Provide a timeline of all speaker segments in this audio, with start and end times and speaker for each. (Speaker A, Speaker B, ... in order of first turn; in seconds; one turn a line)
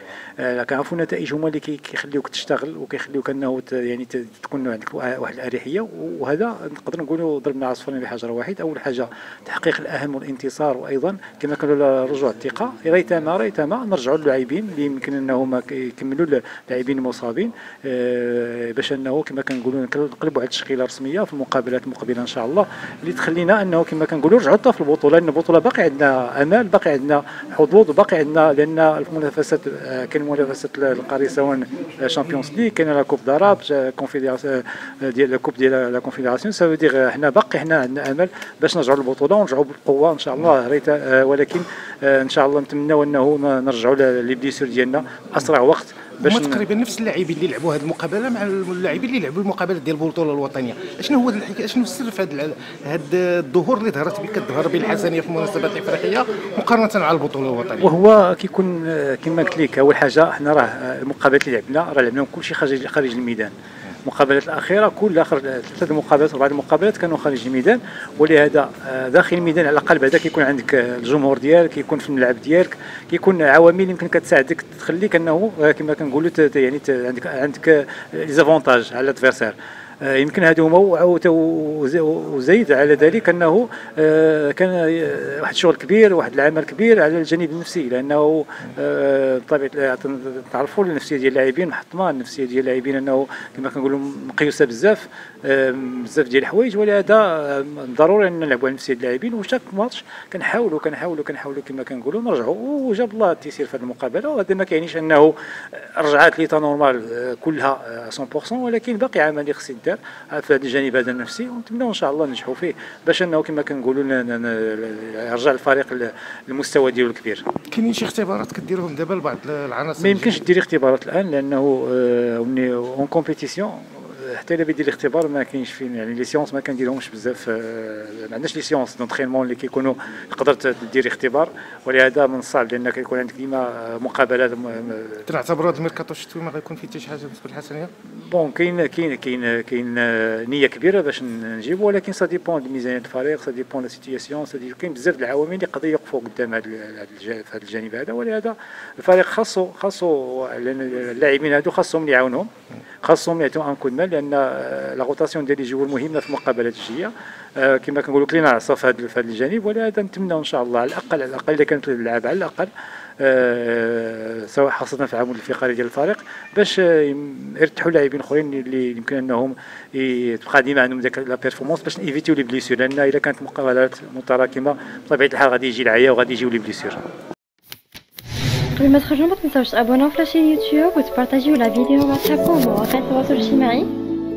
Speaker A: 0.4-46.6
Speaker B: 46.2-57.9
Speaker A: 57.8-63.5
Speaker A: 64.0-117.4
Speaker B: 117.7-120.4
Speaker A: 120.0-135.3
Speaker B: 135.3-137.9
Speaker A: 138.2-152.5
Speaker A: 153.0-177.0
Speaker C: 178.8-183.9